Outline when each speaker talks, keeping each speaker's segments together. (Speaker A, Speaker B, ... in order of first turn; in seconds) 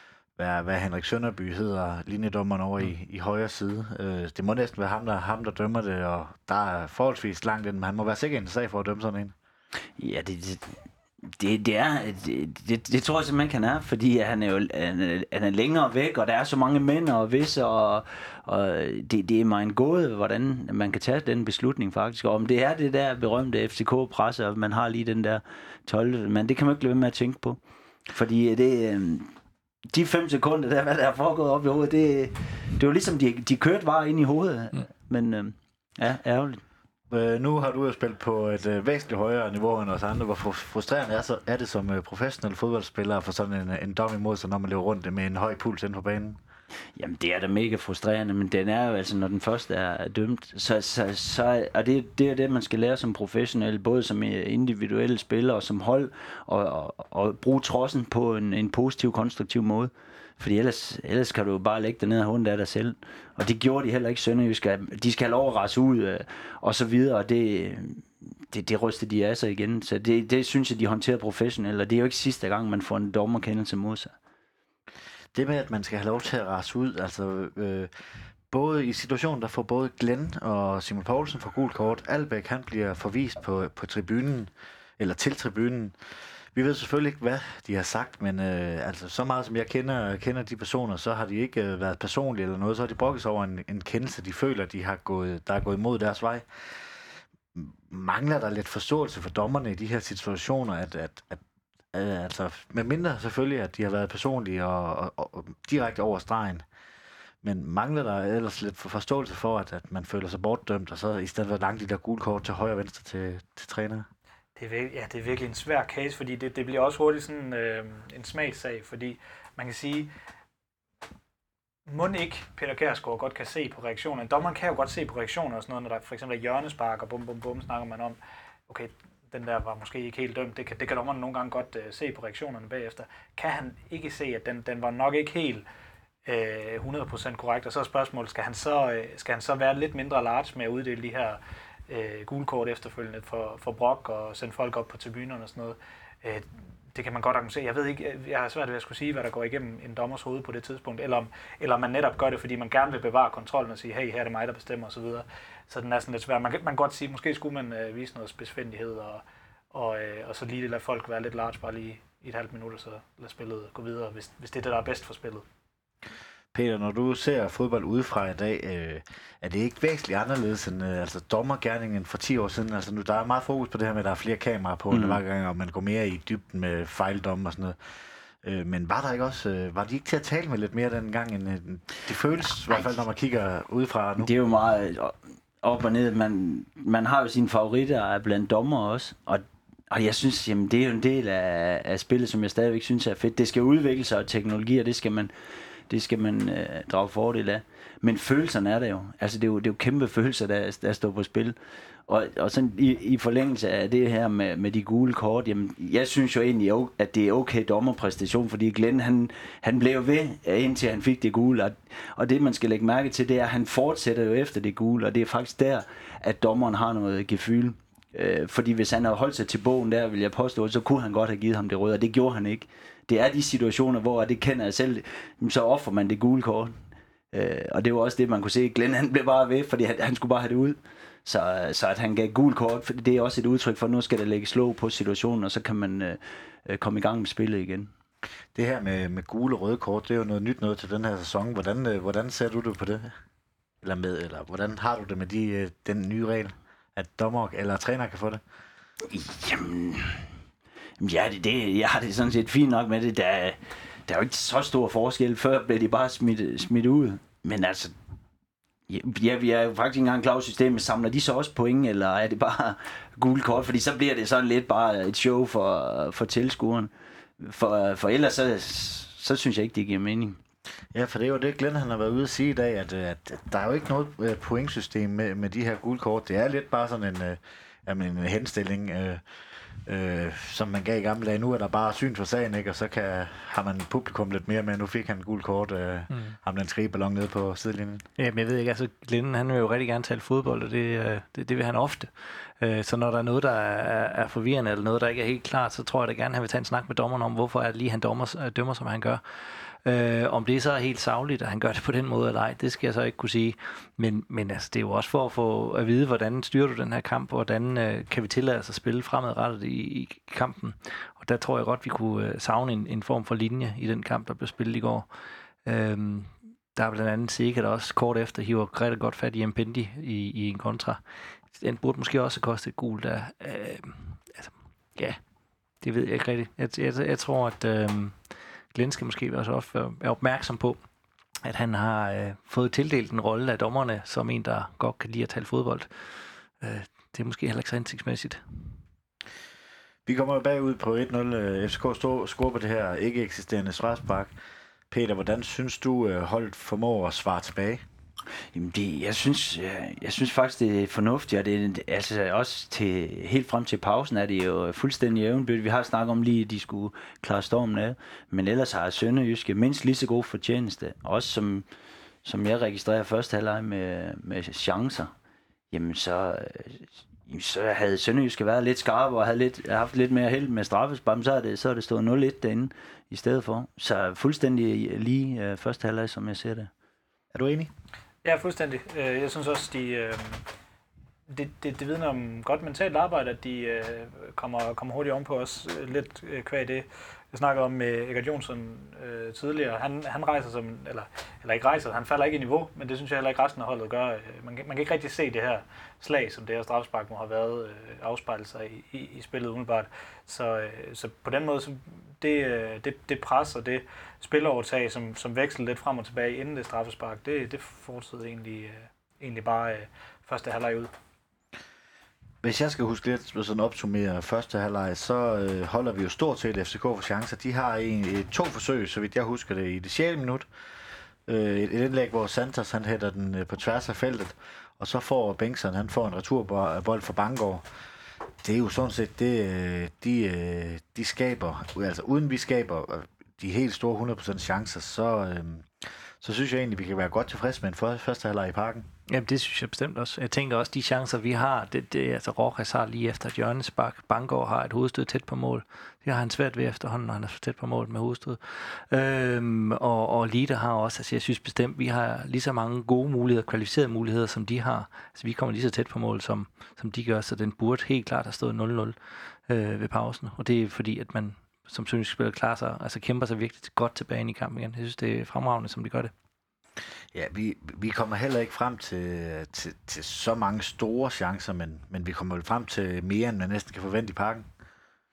Speaker A: 0.4-9.3, 37.1-46.4, 75.3-77.9, 78.5-86.0, 86.5-96.8, 97.5-101.4, 101.9-106.6, 107.4-114.1, 166.5-177.8, 178.4-184.3, 238.5-243.1, 243.8-248.4, 270.9-279.2, 279.9-288.0, 340.1-344.3, 344.9-347.8, 377.3-377.7, 412.4-420.5, 421.3-427.6, 428.4-438.9, 467.1-474.5
Speaker B: 10.0-29.3, 29.9-36.6, 47.0-74.1, 174.9-175.2, 182.7-183.0, 184.2-195.3, 195.9-201.5, 202.1-226.7, 227.3-237.9, 249.1-250.3, 251.0-257.9, 258.9-270.4, 348.5-361.6, 362.2-365.1, 365.7-376.7
Speaker C: 114.5-120.1, 121.9-135.6, 136.2-165.4, 378.2-380.4, 381.3-410.9
Speaker D: 286.1-286.4, 288.2-299.2, 299.8-315.1, 315.6-321.0, 321.6-325.2, 325.8-328.1, 328.7-330.8, 331.4-335.9, 336.6-338.4, 439.1-458.9, 459.5-466.1